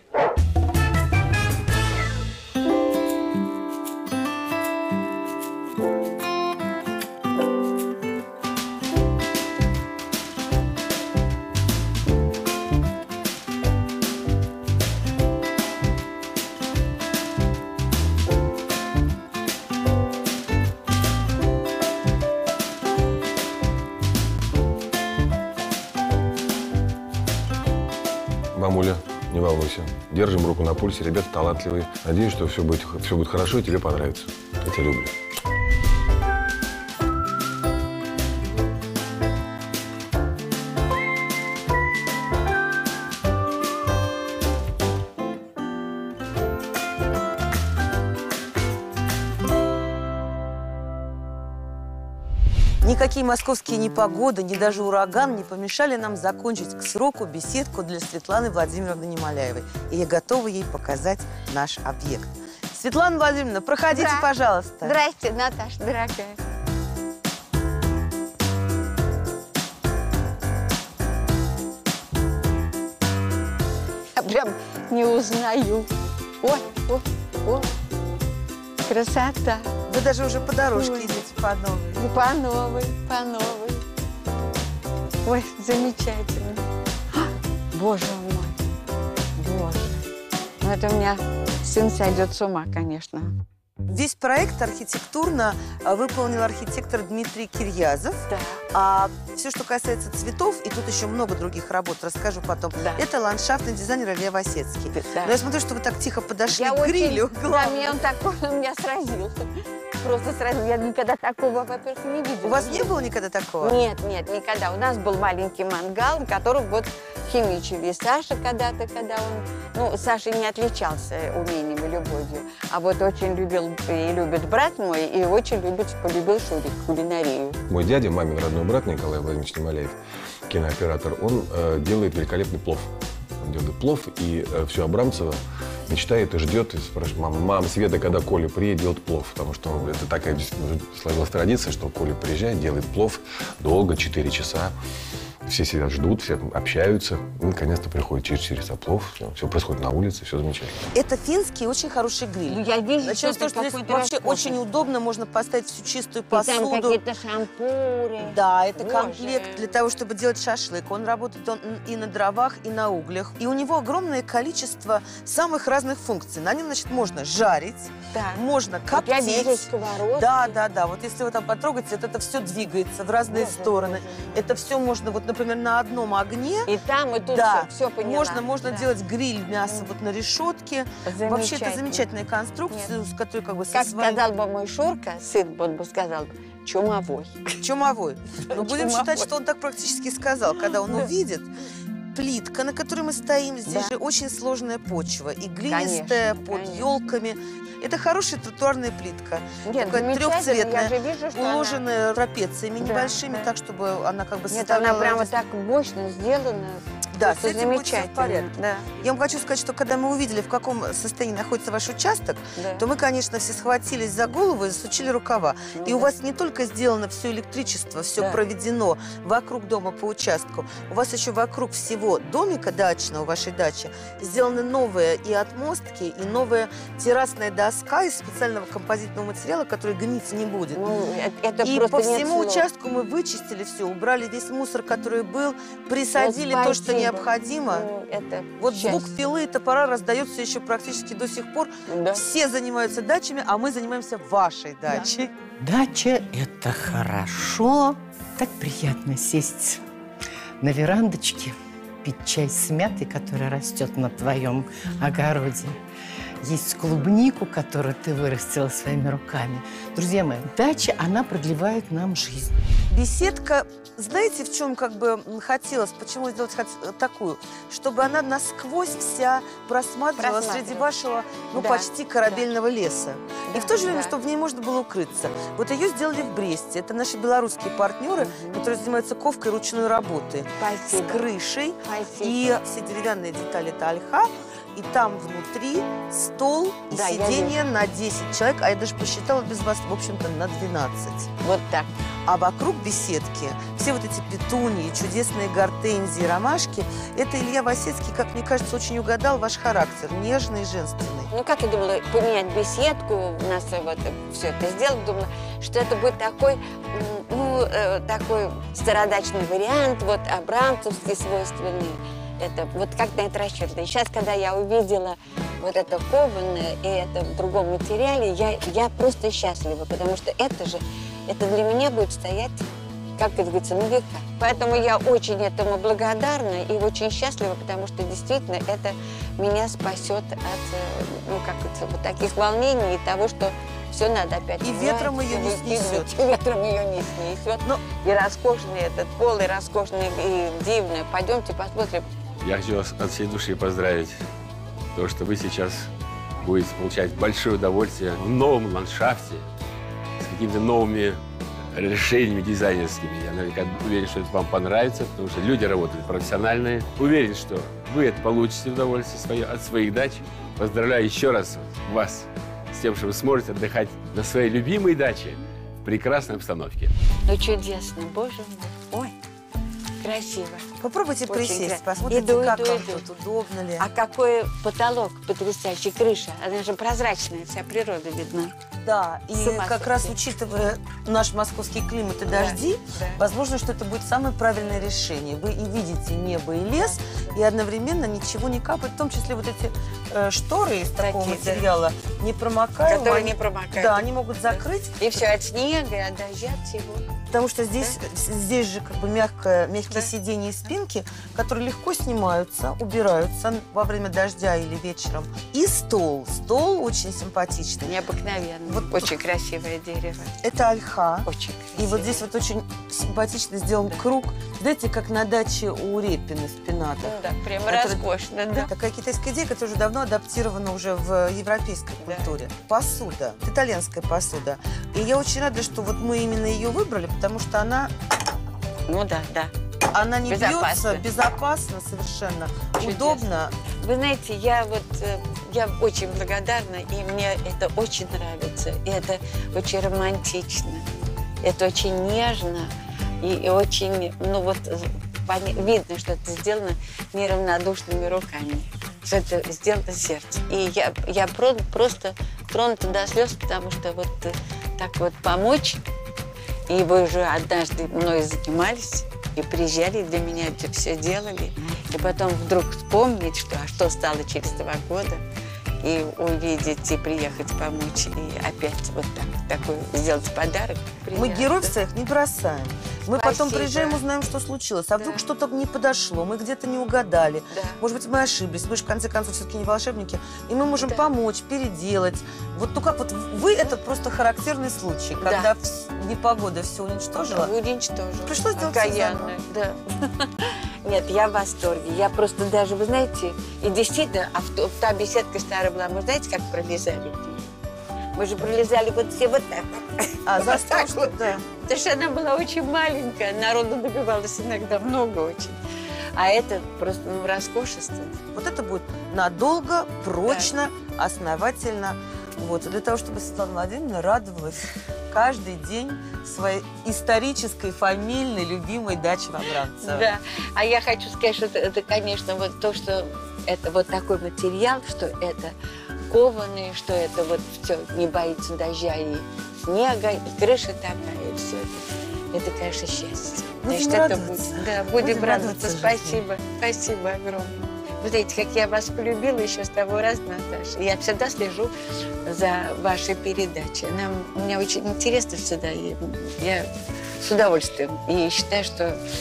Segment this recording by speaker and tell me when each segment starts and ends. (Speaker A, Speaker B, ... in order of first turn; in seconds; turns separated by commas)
Speaker A: 28.5-35.2, Speaker B: 52.8-65.0, Speaker C: 63.9-64.3, Speaker C: 64.8-66.4, Speaker C: 74.2-75.9, Speaker C: 76.4-77.7, Speaker C: 78.9-79.7, Speaker B: 79.9-82.0, Speaker C: 80.7-81.2, Speaker C: 82.0-83.8, Speaker C: 85.2-86.6, Speaker C: 87.7-88.6, Speaker C: 89.4-90.0, Speaker C: 90.6-93.3, Speaker B: 93.9-108.0, Speaker C: 98.3-98.6, Speaker C: 102.8-103.0, Speaker C: 104.9-105.4, Speaker C: 106.5-109.5, Speaker C: 110.0-113.1, Speaker B: 112.4-113.8, Speaker C: 113.6-127.6, Speaker A: 127.7-130.0, Speaker A: 130.5-144.8, Speaker A: 145.4-150.8, Speaker B: 150.9-157.0, Speaker C: 152.5-154.6, Speaker C: 156.3-159.7, Speaker B: 158.3-176.7, Speaker C: 168.1-168.4, Speaker C: 168.9-170.6, Speaker C: 173.3-174.4, Speaker C: 176.7-178.9, Speaker B: 177.3-184.2, Speaker C: 181.1-182.1, Speaker C: 183.7-187.5, Speaker B: 187.6-191.5, Speaker C: 188.5-189.3, Speaker B: 192.1-205.3, Speaker C: 193.7-193.9, Speaker C: 195.7-196.9, Speaker C: 199.6-201.8, Speaker C: 202.8-203.5, Speaker C: 204.5-208.9, Speaker B: 207.2-230.9, Speaker C: 212.6-212.8, Speaker C: 215.7-216.1, Speaker C: 230.7-232.7, Speaker B: 231.6-237.9, Speaker C: 236.2-239.1, Speaker B: 238.6-245.3, Speaker C: 241.9-242.2, Speaker D: 245.6-249.8, Speaker D: 250.6-255.8, Speaker D: 256.4-262.5, Speaker B: 262.9-291.3, Speaker C: 270.2-270.9, Speaker C: 271.5-272.5, Speaker C: 273.5-274.2, Speaker C: 278.2-278.6, Speaker C: 280.6-281.3, Speaker C: 281.8-282.5, Speaker C: 286.9-287.6, Speaker C: 291.4-291.9, Speaker B: 292.3-301.3, Speaker C: 301.3-322.6, Speaker C: 323.2-342.1, Speaker B: 334.6-336.1, Speaker E: 342.4-344.2, Speaker E: 344.9-345.9, Speaker E: 346.4-349.5, Speaker E: 350.2-351.2, Speaker E: 351.7-366.9, Speaker C: 367.3-369.1, Speaker C: 370.0-370.7, Speaker B: 370.8-373.9, Speaker C: 371.3-373.1, Speaker C: 373.8-378.5, Speaker B: 378.9-395.2, Speaker C: 379.3-380.2, Speaker C: 382.3-383.2, Speaker C: 391.0-391.7, Speaker C: 392.9-397.1, Speaker B: 397.3-408.0, Speaker C: 407.9-410.4, Speaker B: 408.7-409.0, Speaker B: 410.4-427.9, Speaker C: 411.3-412.2, Speaker C: 417.1-418.7, Speaker C: 422.0-422.4, Speaker C: 428.9-429.5, Speaker B: 429.9-433.5, Speaker C: 430.3-431.1, Speaker C: 432.8-433.3, Speaker C: 433.8-440.8, Speaker C: 441.4-455.8, Speaker C: 456.7-465.2, Speaker C: 465.8-471.8, Speaker B: 471.1-487.5, Speaker C: 473.1-474.0, Speaker C: 477.5-477.8, Speaker C: 485.2-485.5, Speaker C: 487.3-497.4, Speaker B: 488.2-489.4, Speaker C: 498.2-505.6, Speaker B: 500.2-501.4, Speaker C: 506.1-508.2, Speaker B: 508.3-520.1, Speaker C: 510.2-510.5, Speaker C: 519.8-525.5, Speaker C: 526.1-541.7, Speaker B: 533.6-536.2, Speaker C: 542.2-546.7, Speaker C: 547.2-549.0